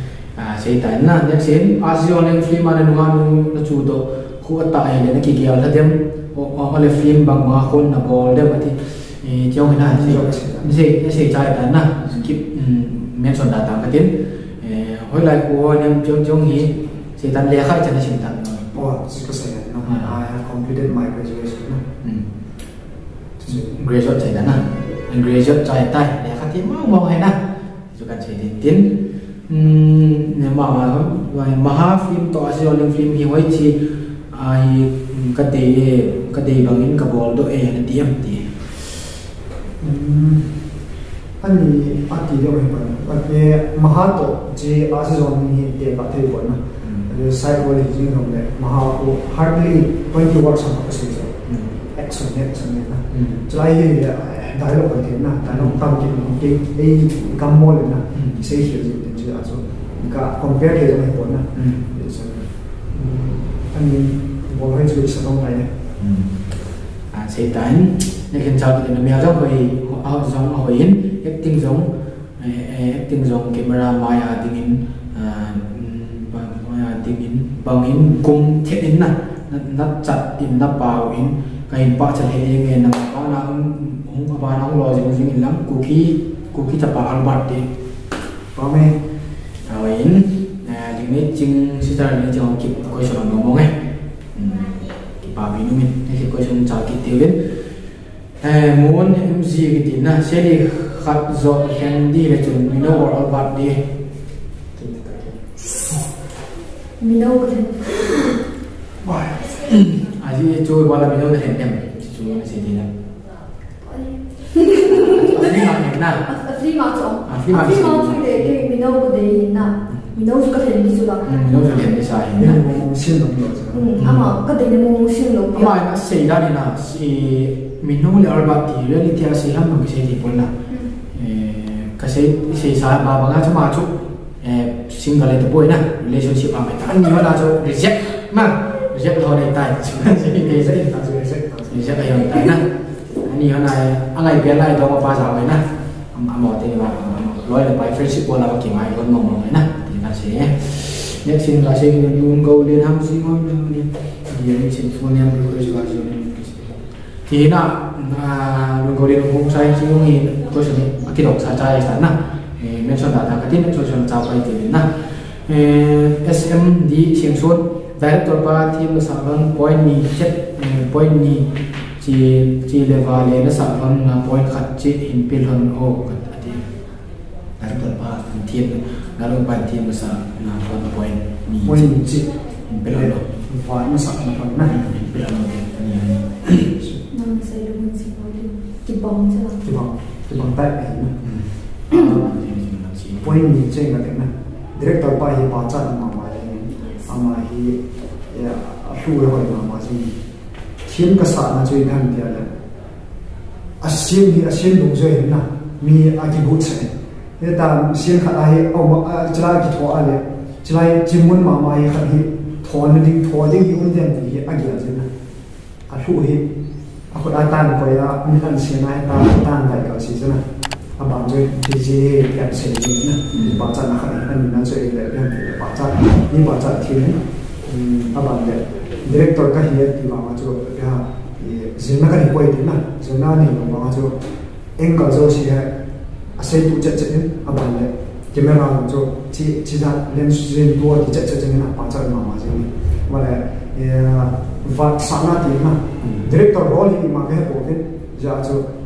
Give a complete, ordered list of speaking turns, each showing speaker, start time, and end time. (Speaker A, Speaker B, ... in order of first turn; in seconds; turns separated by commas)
Speaker A: 0.4-18.7, Speaker B: 9.7-10.7, Speaker B: 18.7-21.8, Speaker A: 19.8-20.1, Speaker B: 23.4-23.7, Speaker A: 23.5-27.4, Speaker A: 27.9-28.9, Speaker A: 29.5-33.8, Speaker A: 34.3-38.6, Speaker B: 39.8-40.5, Speaker B: 41.4-51.3, Speaker A: 46.8-47.1, Speaker A: 51.5-51.8, Speaker B: 51.9-65.7, Speaker A: 53.1-53.4, Speaker A: 61.5-61.8, Speaker A: 66.0-66.3, Speaker A: 67.1-71.9, Speaker A: 72.4-87.7, Speaker B: 88.5-89.0, Speaker A: 89.7-93.7, Speaker A: 94.3-97.4, Speaker A: 98.4-103.8, Speaker B: 104.8-105.1, Speaker A: 104.8-105.3, Speaker C: 107.0-108.4, Speaker A: 109.1-112.9, Speaker C: 113.8-115.7, Speaker A: 114.8-116.2, Speaker C: 116.3-122.0, Speaker A: 117.3-118.5, Speaker A: 121.2-122.6, Speaker B: 122.4-123.9, Speaker C: 123.7-125.8, Speaker A: 124.0-124.3, Speaker A: 125.5-130.5, Speaker A: 131.1-140.7, Speaker B: 140.3-141.9, Speaker A: 141.7-142.7, Speaker A: 143.2-164.9, Speaker A: 165.4-171.5, Speaker A: 172.0-176.7, Speaker A: 177.6-181.9, Speaker B: 181.6-182.3, Speaker A: 182.7-183.2, Speaker B: 182.9-184.8, Speaker A: 184.7-186.7, Speaker C: 187.1-189.6, Speaker B: 189.6-191.1, Speaker A: 191.2-193.4, Speaker B: 191.9-192.3, Speaker B: 193.2-197.8, Speaker C: 196.7-197.2, Speaker B: 198.3-200.2, Speaker B: 200.8-202.5, Speaker B: 203.8-215.1, Speaker B: 215.9-216.5, Speaker B: 217.1-220.4, Speaker B: 221.0-234.2, Speaker A: 223.3-223.6, Speaker B: 234.8-235.7, Speaker B: 236.4-248.7, Speaker A: 246.0-246.3